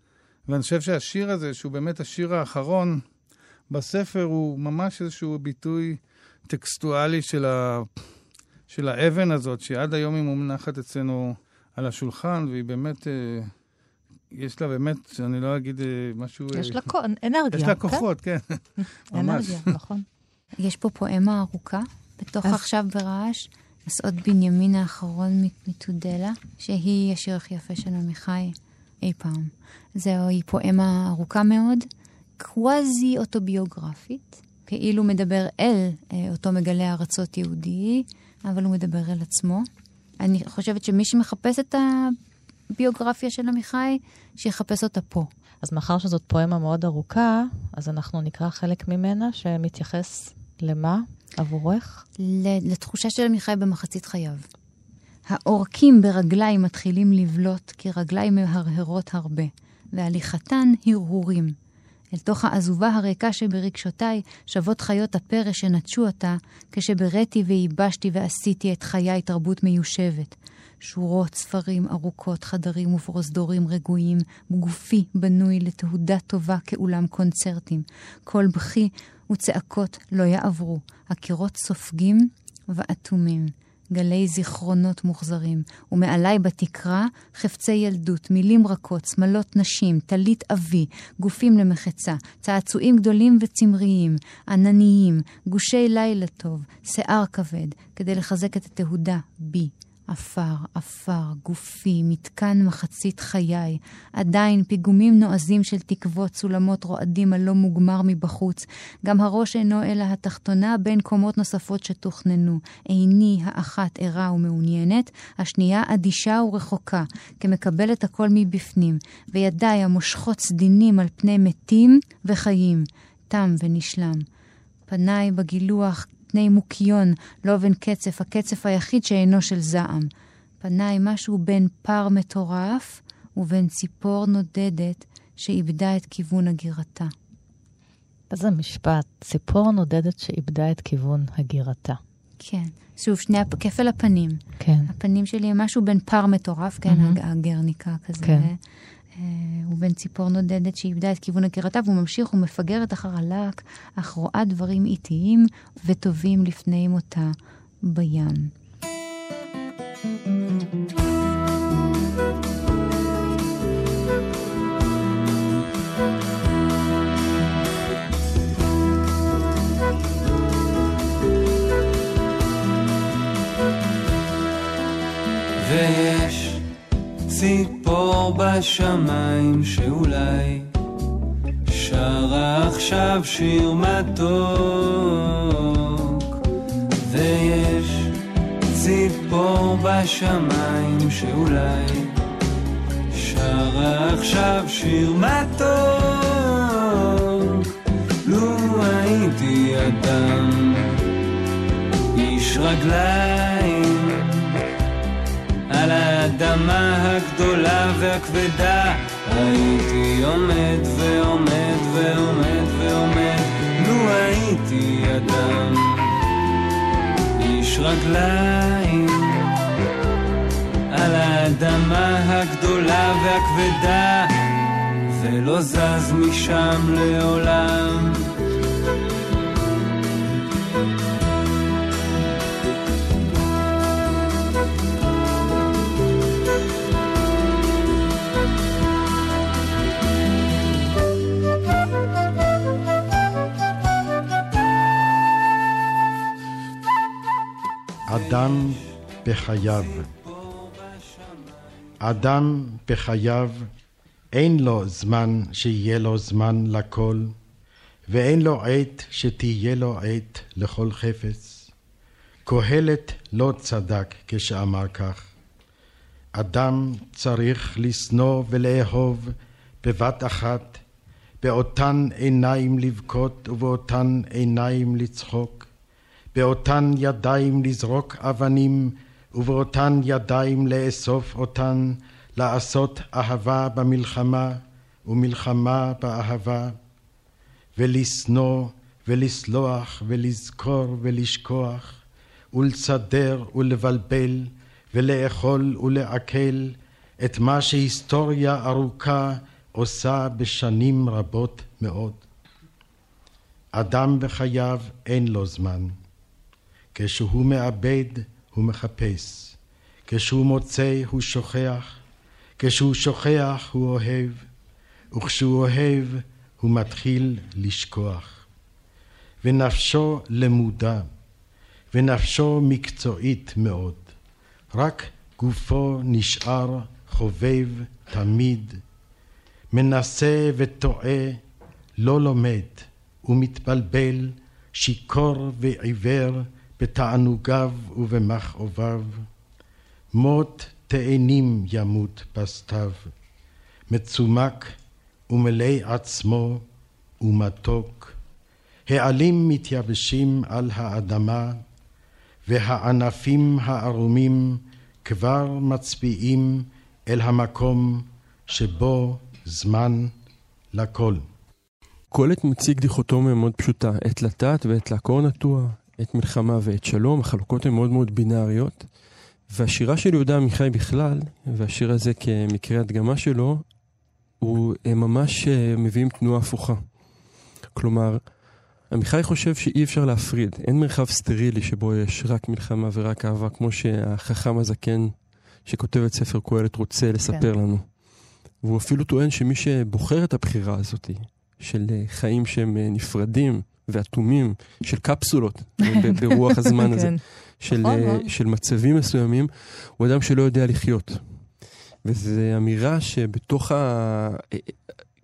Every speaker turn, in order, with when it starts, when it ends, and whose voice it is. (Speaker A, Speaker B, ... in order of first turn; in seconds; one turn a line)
Speaker A: 0.5-3.0
Speaker A: 3.7-7.9
Speaker A: 8.7-13.5
Speaker A: 14.3-16.8
Speaker B: 16.5-18.0
Speaker A: 17.5-18.6
Speaker B: 18.8-20.1
Speaker A: 19.1-19.7
Speaker C: 20.6-31.9
Speaker C: 32.4-39.7
Speaker C: 40.2-42.2
Speaker C: 42.7-45.3
Speaker B: 45.6-52.0
Speaker C: 52.2-54.5
Speaker C: 55.3-61.5
Speaker C: 62.1-124.2
Speaker C: 124.9-130.1
Speaker C: 130.6-137.1
Speaker B: 138.3-142.0
Speaker C: 142.4-148.6
Speaker B: 144.6-144.9
Speaker B: 146.9-147.2
Speaker B: 148.2-148.5
Speaker C: 149.2-158.5
Speaker D: 175.6-176.6
Speaker D: 177.3-180.7
Speaker D: 181.7-186.3
Speaker D: 187.1-188.1
Speaker D: 188.7-192.1
Speaker D: 193.1-197.7
Speaker D: 198.2-201.0
Speaker D: 202.1-204.4
Speaker D: 205.7-216.1
Speaker D: 217.4-219.5
Speaker D: 220.9-224.3
Speaker D: 225.1-228.2
Speaker E: 248.1-250.1
Speaker D: 248.1-248.6
Speaker D: 249.7-251.8
Speaker E: 252.0-253.7
Speaker E: 254.3-257.4
Speaker E: 258.1-261.7
Speaker E: 262.5-265.3
Speaker E: 266.4-270.8
Speaker E: 271.4-275.7
Speaker E: 276.3-286.8
Speaker E: 287.8-292.0
Speaker E: 292.5-302.2
Speaker E: 303.8-305.9
Speaker E: 306.9-309.6
Speaker E: 310.1-312.0
Speaker E: 312.6-314.5
Speaker E: 315.1-318.4
Speaker E: 319.4-321.1
Speaker E: 321.9-324.1
Speaker E: 324.7-328.8
Speaker E: 329.7-331.4
Speaker E: 332.0-339.3
Speaker E: 340.1-343.1
Speaker E: 343.9-344.8
Speaker E: 345.3-346.6
Speaker E: 347.2-348.2
Speaker E: 348.9-351.6
Speaker E: 352.4-360.1
Speaker E: 360.7-361.2
Speaker F: 362.1-368.9
Speaker F: 369.5-373.6
Speaker F: 374.4-376.8
Speaker F: 377.8-378.2
Speaker F: 378.9-385.1
Speaker F: 385.7-387.9
Speaker F: 388.6-401.2
Speaker B: 396.1-397.2
Speaker B: 397.7-398.3
Speaker F: 402.1-404.8